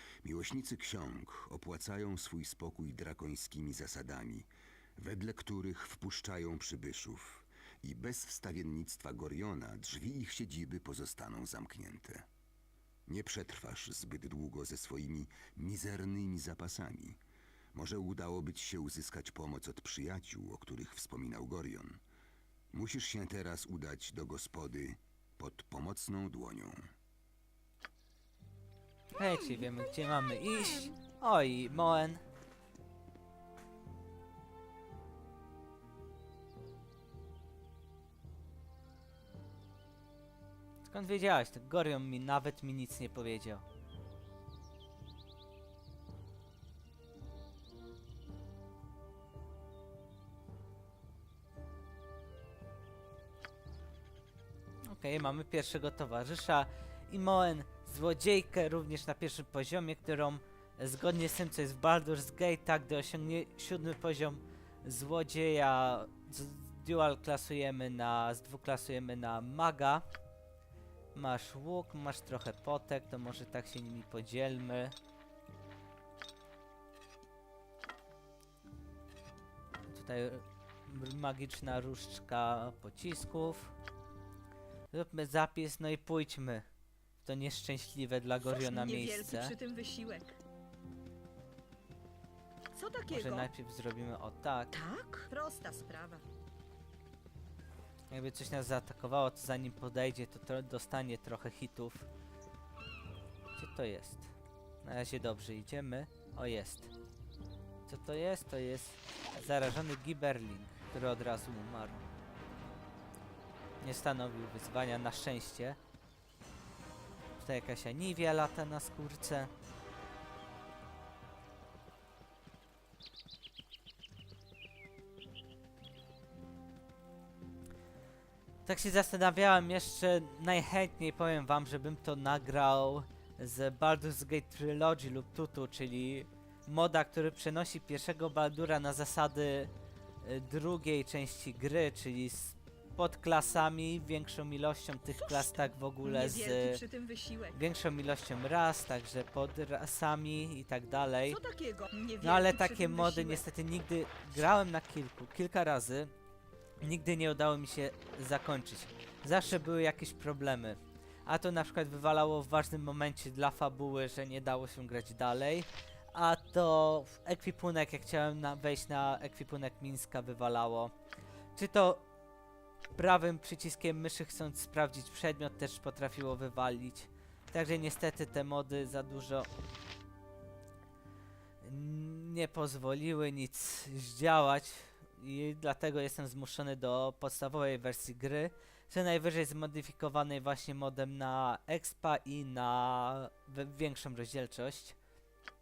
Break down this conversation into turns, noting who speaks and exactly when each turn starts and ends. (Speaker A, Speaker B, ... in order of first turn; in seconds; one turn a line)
Speaker A: 0.2-12.3
Speaker A: 13.1-17.2
Speaker A: 17.7-22.0
Speaker A: 22.7-26.9
Speaker B: 29.1-32.2
Speaker B: 40.8-43.6
Speaker B: 54.9-70.0
Speaker B: 71.1-74.9
Speaker B: 79.9-83.7
Speaker B: 84.9-86.7
Speaker B: 87.2-89.5
Speaker C: 88.4-90.4
Speaker C: 92.7-93.5
Speaker B: 93.1-94.8
Speaker C: 94.7-96.2
Speaker B: 98.1-102.1
Speaker B: 103.5-106.9
Speaker B: 107.9-112.0
Speaker B: 113.8-115.8
Speaker B: 117.4-119.5
Speaker B: 128.6-139.7
Speaker B: 140.2-146.8
Speaker C: 145.1-147.6
Speaker B: 147.5-151.4
Speaker C: 151.3-153.4
Speaker B: 152.2-156.1
Speaker B: 156.8-170.9
Speaker B: 171.5-172.0
Speaker B: 172.9-179.5
Speaker B: 181.6-194.9